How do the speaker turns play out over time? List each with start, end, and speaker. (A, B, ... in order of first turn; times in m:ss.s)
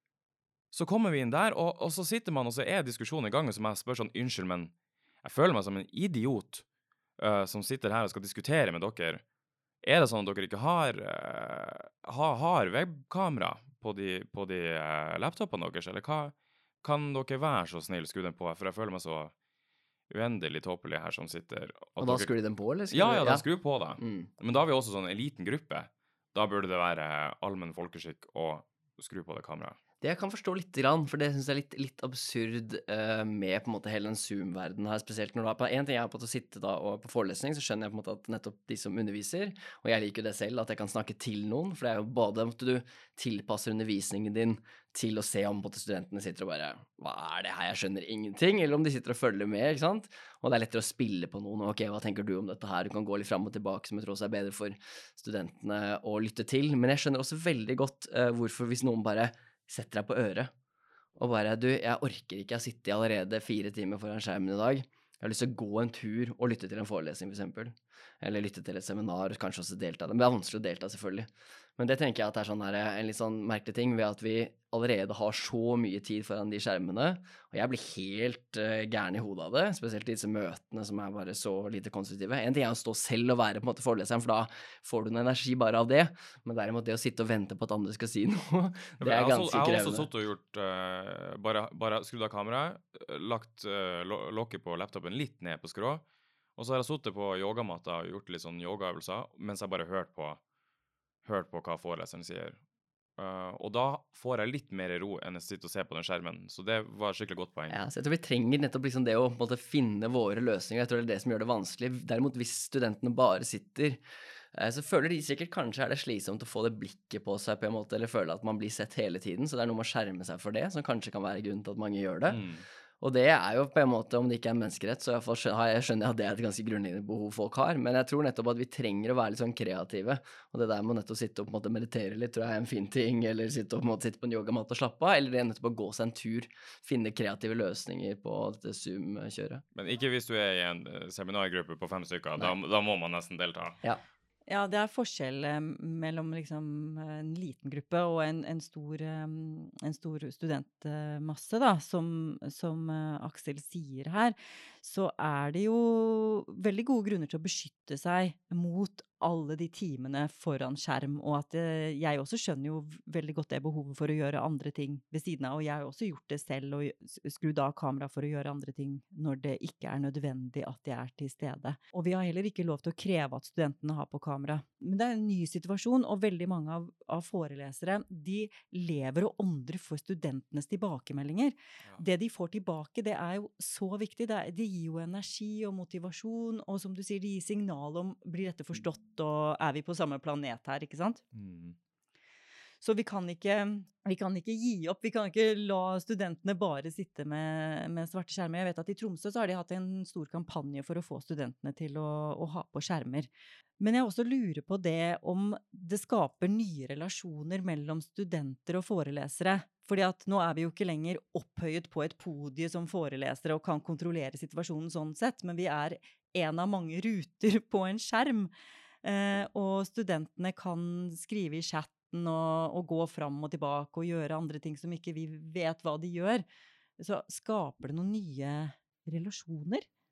0:00.7-0:04.7 A
0:05.2-0:06.6 A
0:07.2-0:09.2 A
0:09.8-0:19.3 A
0:20.1-0:22.3 A
0:22.0-0:23.4 B
0:22.9-0:29.8 A
0:24.0-0:24.3 B
0:30.0-1:00.5 B
1:01.2-1:30.1 B
1:29.0-1:36.0 A
1:36.6-1:40.4 A
1:41.2-1:42.6 A
1:43.2-1:47.8 A
1:47.7-1:54.0 B
1:54.5-2:02.4 B
2:02.3-2:02.6 A
2:03.0-2:19.6 B
2:19.7-2:23.8 A
2:24.5-3:11.2 C
3:11.3-3:11.8 A
3:12.8-3:46.4 C
3:47.0-3:49.9 C